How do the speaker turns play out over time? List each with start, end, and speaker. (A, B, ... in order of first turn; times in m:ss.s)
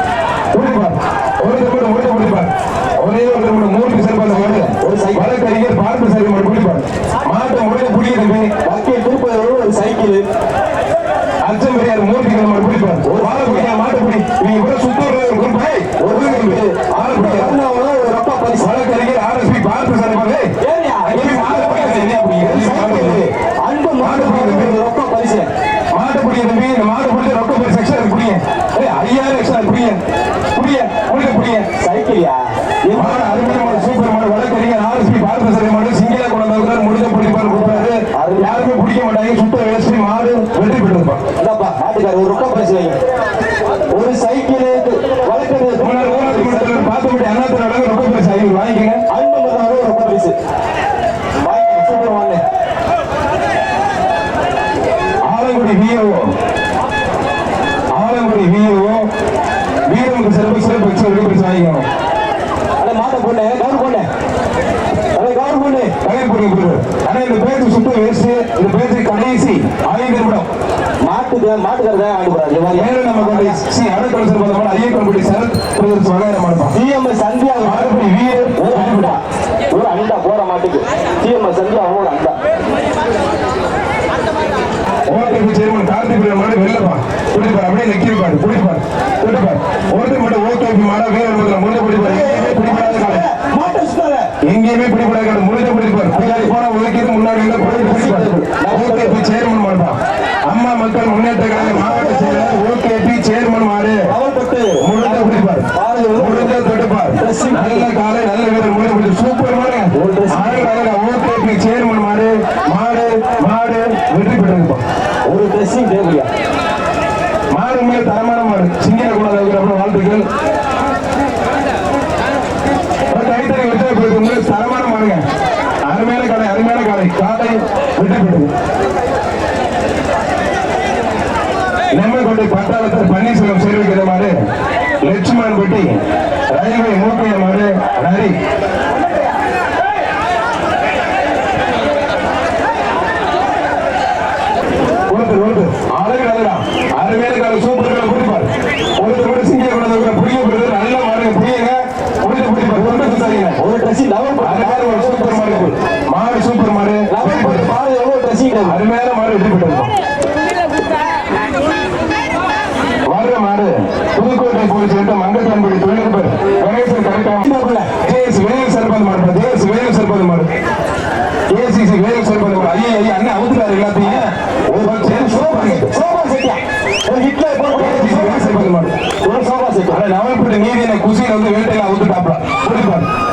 0:00.5-0:08.5 A
0:04.3-0:05.3 B
0:08.6-0:10.3 B
0:11.4-0:17.6 A
0:13.0-0:13.7 B
0:16.0-0:18.7 B
0:18.6-0:20.5 A
0:20.6-0:25.5 B
0:21.0-0:23.2 A
0:24.0-0:24.8 A
0:25.9-0:30.0 A
0:30.5-0:31.7 A
0:31.8-0:33.9 B
0:32.9-0:41.2 A
0:37.4-0:38.8 B
0:41.4-0:43.0 B
0:43.9-0:46.9 B
0:45.8-0:49.0 A
0:49.1-0:50.4 B
0:51.4-0:52.4 B
0:55.3-0:56.3 A
0:57.9-0:59.1 A
0:59.9-1:01.9 A
1:02.8-1:04.1 B
1:05.2-1:06.0 B
1:06.0-1:10.5 A
1:11.0-1:13.6 B
1:12.7-1:16.8 A
1:16.7-1:18.0 B
1:17.6-1:19.2 A
1:18.6-1:22.4 B
1:25.1-1:33.2 A
1:32.0-1:34.3 B
1:34.4-1:40.0 A
1:36.1-1:36.5 B
1:37.6-1:39.2 B
1:40.5-1:44.1 A
1:41.5-1:42.6 B
1:44.1-1:46.6 B
1:44.8-1:54.8 A
1:47.2-1:47.9 B
1:49.9-1:50.7 B
1:55.2-1:56.3 B
1:57.5-2:00.2 A
2:03.1-2:05.2 A
2:05.9-2:08.5 A
2:11.9-2:14.4 A
2:15.0-2:16.0 A
2:16.5-2:18.4 A
2:25.1-2:33.6 A
2:32.7-2:35.8 B
2:34.4-2:37.7 A
2:37.1-2:38.8 B
2:38.6-2:39.9 A
2:43.1-2:47.4 A
2:47.4-2:47.9 B
2:48.0-2:50.5 A
2:51.5-2:55.9 A
2:54.8-3:00.0 B
2:57.7-2:58.9 A
2:59.9-3:03.1 A